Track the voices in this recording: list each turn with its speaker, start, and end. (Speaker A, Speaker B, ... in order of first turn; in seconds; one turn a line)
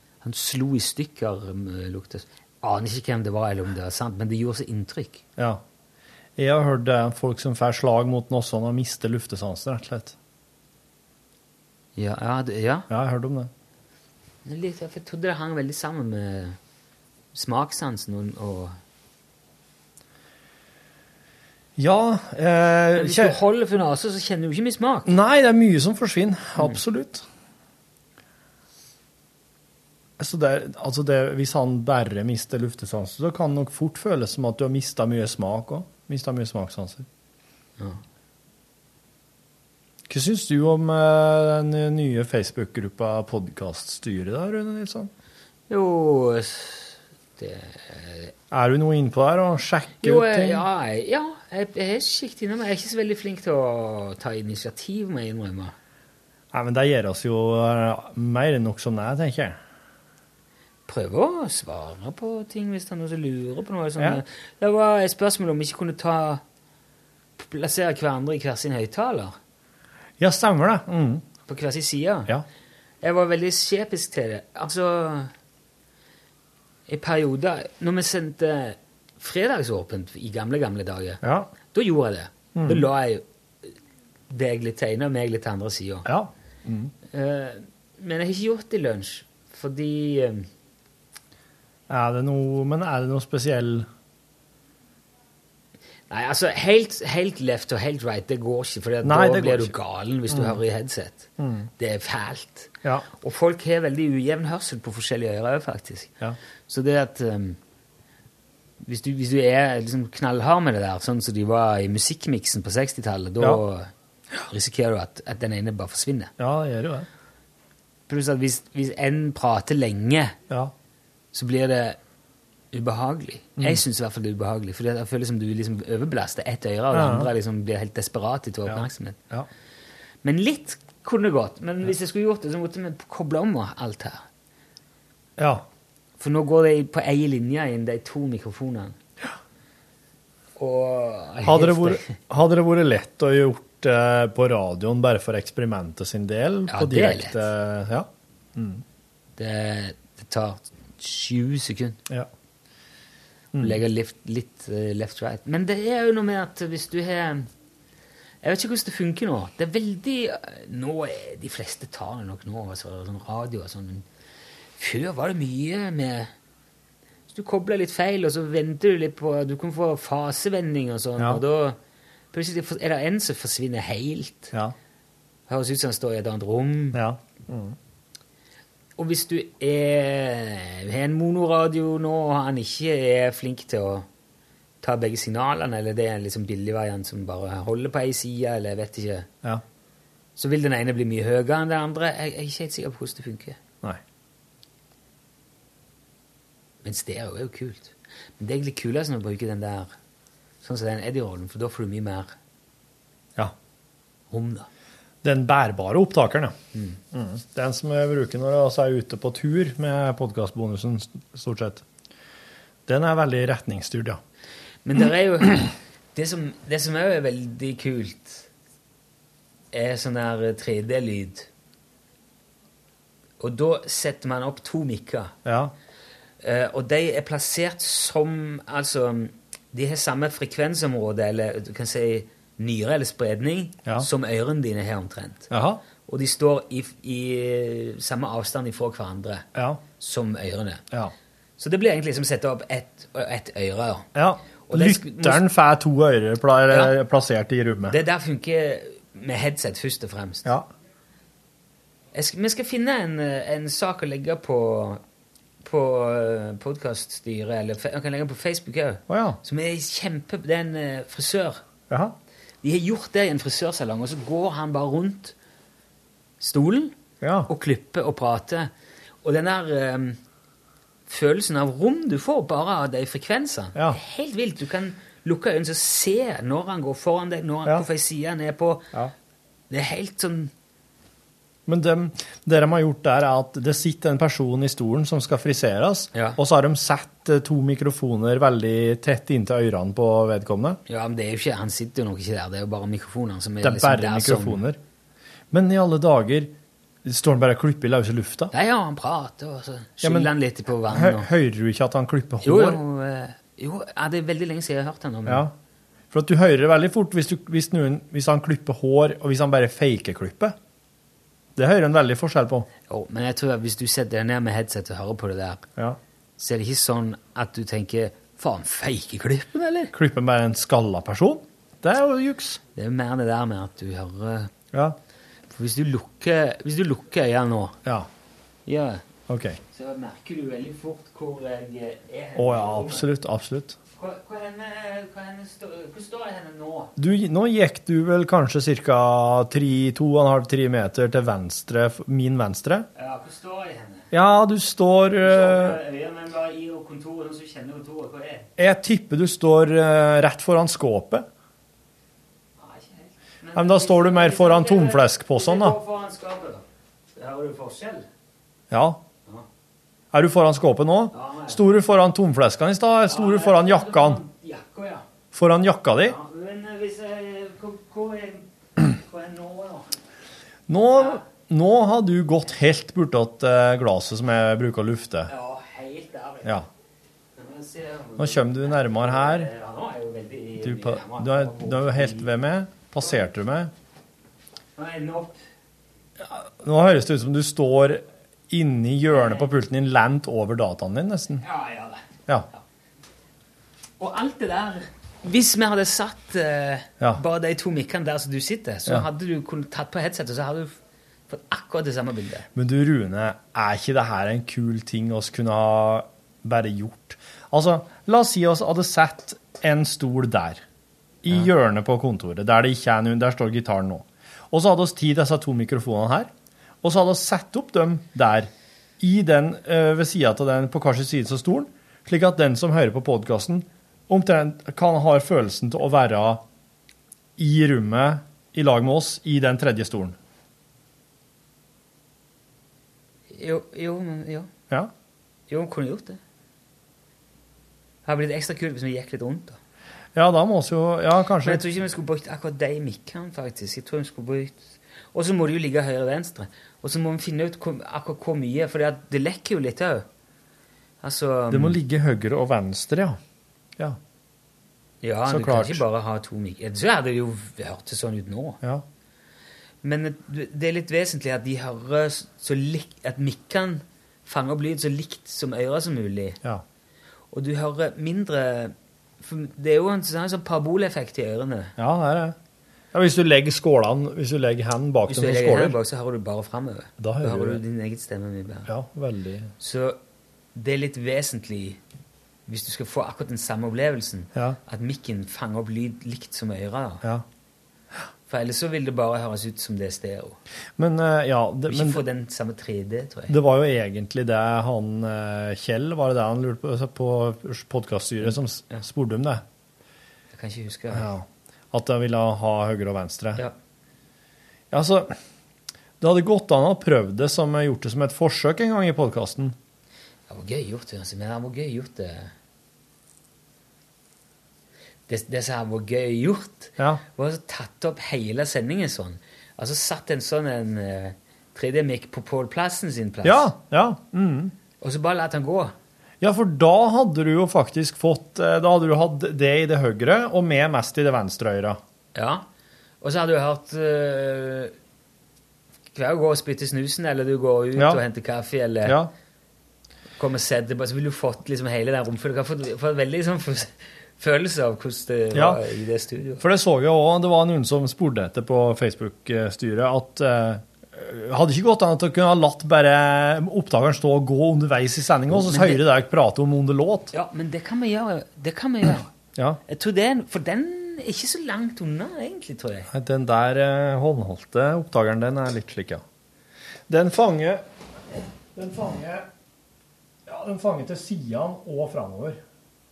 Speaker A: 0.2-5.2
Speaker B: 6.4-10.1
Speaker A: 11.9-12.9
Speaker B: 12.9-13.5
Speaker A: 14.4-16.6
Speaker A: 17.3-18.8
Speaker B: 21.8-23.4
Speaker A: 22.9-25.1
Speaker B: 25.1-27.2
Speaker B: 30.2-37.0
Speaker B: 40.1-45.1
Speaker A: 45.7-48.3
Speaker B: 48.5-50.6
Speaker A: 50.0-55.7
Speaker B: 56.5-59.6
Speaker A: 60.9-66.4
Speaker A: 67.4-69.4
Speaker B: 70.2-71.2
Speaker A: 71.5-72.3
Speaker A: 73.0-75.3
Speaker A: 76.9-83.2
Speaker B: 81.2-81.5
Speaker B: 82.5-82.9
Speaker A: 84.3-86.1
Speaker B: 86.0-86.9
Speaker A: 87.1-90.5
Speaker B: 91.9-93.9
Speaker A: 96.1-106.1
Speaker B: 99.0-99.7
Speaker B: 100.3-100.6
Speaker B: 101.4-101.7
Speaker A: 106.7-107.6
Speaker A: 108.8-113.9
Speaker A: 114.5-116.3
Speaker B: 116.4-117.0
Speaker A: 118.1-120.4
Speaker A: 121.3-122.0
Speaker A: 122.7-129.2
Speaker B: 126.9-127.3
Speaker B: 128.7-129.5
Speaker A: 130.2-134.2
Speaker B: 135.4-135.6
Speaker A: 136.2-138.9
Speaker A: 140.6-142.1
Speaker B: 141.4-148.8
Speaker A: 146.7-147.5
Speaker A: 149.4-152.0
Speaker A: 153.6-157.5
Speaker A: 158.4-164.1
Speaker A: 164.8-166.3
Speaker A: 167.3-171.8
Speaker A: 172.3-174.5
Speaker A: 175.5-177.0
Speaker B: 176.9-177.8
Speaker A: 179.0-184.1
Speaker A: 184.8-189.3
Speaker A: 190.4-193.6
Speaker A: 196.8-199.9
Speaker A: 200.6-202.3
Speaker A: 204.3-204.7
Speaker B: 205.2-206.5
Speaker A: 206.7-207.0
Speaker B: 207.1-211.8
Speaker B: 212.9-214.2
Speaker A: 214.8-218.5
Speaker A: 219.7-221.5
Speaker A: 223.4-225.3
Speaker B: 225.4-225.7
Speaker A: 226.4-235.5
Speaker B: 235.5-235.8
Speaker A: 236.1-239.4
Speaker A: 240.0-240.8
Speaker A: 241.6-244.1
Speaker B: 244.1-247.9
Speaker A: 244.7-245.4
Speaker A: 246.7-246.9
Speaker A: 247.9-250.5
Speaker A: 252.1-255.0
Speaker A: 255.6-261.6
Speaker B: 259.1-259.4
Speaker A: 262.6-265.3
Speaker A: 266.4-266.9
Speaker B: 267.2-267.5
Speaker A: 267.5-268.7
Speaker A: 269.2-270.2
Speaker A: 271.1-278.9
Speaker A: 279.7-280.5
Speaker B: 281.7-290.8
Speaker A: 286.1-286.4
Speaker A: 290.9-294.6
Speaker B: 293.6-294.8
Speaker B: 295.5-296.5
Speaker B: 297.1-298.5
Speaker A: 298.5-301.3
Speaker B: 300.0-300.3
Speaker B: 300.9-302.8
Speaker A: 302.4-305.5
Speaker B: 305.3-305.5
Speaker B: 306.1-310.6
Speaker B: 311.6-312.7
Speaker A: 312.9-315.6
Speaker A: 316.4-319.9
Speaker B: 319.9-322.6
Speaker A: 322.7-324.5
Speaker A: 325.5-327.8
Speaker A: 328.6-329.0
Speaker B: 329.3-329.6
Speaker A: 329.7-333.1
Speaker B: 332.4-333.7
Speaker A: 333.9-336.9
Speaker B: 337.0-342.9
Speaker A: 342.9-344.1
Speaker B: 344.1-345.8
Speaker A: 345.2-348.5
Speaker B: 348.6-351.2
Speaker A: 352.6-356.6
Speaker B: 353.6-355.8
Speaker A: 357.1-358.1
Speaker B: 358.7-359.0
Speaker B: 360.1-364.2
Speaker A: 361.1-361.8
Speaker A: 363.1-365.1
Speaker B: 365.3-366.1
Speaker A: 366.0-369.9
Speaker B: 370.7-375.3
Speaker A: 375.3-376.6
Speaker A: 377.4-382.3
Speaker B: 378.2-379.5
Speaker B: 380.6-383.7
Speaker A: 384.8-385.4
Speaker B: 386.2-391.4
Speaker A: 389.1-389.5
Speaker A: 391.4-392.6
Speaker A: 394.0-400.7
Speaker A: 401.3-402.5
Speaker B: 402.6-410.6
Speaker B: 411.2-416.3
Speaker B: 416.8-418.5
Speaker B: 419.0-426.4
Speaker B: 427.4-430.1
Speaker A: 433.3-434.5
Speaker A: 435.5-436.2
Speaker A: 438.1-439.6
Speaker B: 440.1-441.6
Speaker A: 441.4-450.1
Speaker A: 451.0-451.8
Speaker B: 451.5-453.2
Speaker A: 455.0-458.6
Speaker B: 455.3-455.8
Speaker A: 459.8-466.4
Speaker A: 467.3-471.7
Speaker B: 471.8-472.4
Speaker B: 472.9-475.8
Speaker A: 475.1-478.7
Speaker B: 477.0-477.6
Speaker B: 478.7-479.5
Speaker A: 479.6-480.0
Speaker A: 480.6-481.8
Speaker A: 482.5-487.0
Speaker A: 488.3-490.4
Speaker B: 490.8-492.0
Speaker A: 491.7-493.4
Speaker B: 493.3-499.4
Speaker A: 498.2-498.8
Speaker A: 500.3-501.1
Speaker B: 500.9-503.4
Speaker B: 504.7-505.1
Speaker B: 506.0-509.6
Speaker A: 510.3-512.3
Speaker A: 515.1-523.5
Speaker B: 523.2-524.5
Speaker A: 524.8-525.7
Speaker B: 526.2-531.8
Speaker A: 532.1-532.5
Speaker A: 533.0-534.7
Speaker A: 535.9-539.0
Speaker B: 537.8-538.0
Speaker A: 540.2-546.4
Speaker B: 545.3-545.6
Speaker B: 546.4-557.1
Speaker A: 555.3-555.8
Speaker A: 557.1-559.1
Speaker A: 559.7-562.9
Speaker B: 562.9-566.0
Speaker B: 566.9-567.6
Speaker B: 568.5-569.3
Speaker B: 570.3-572.4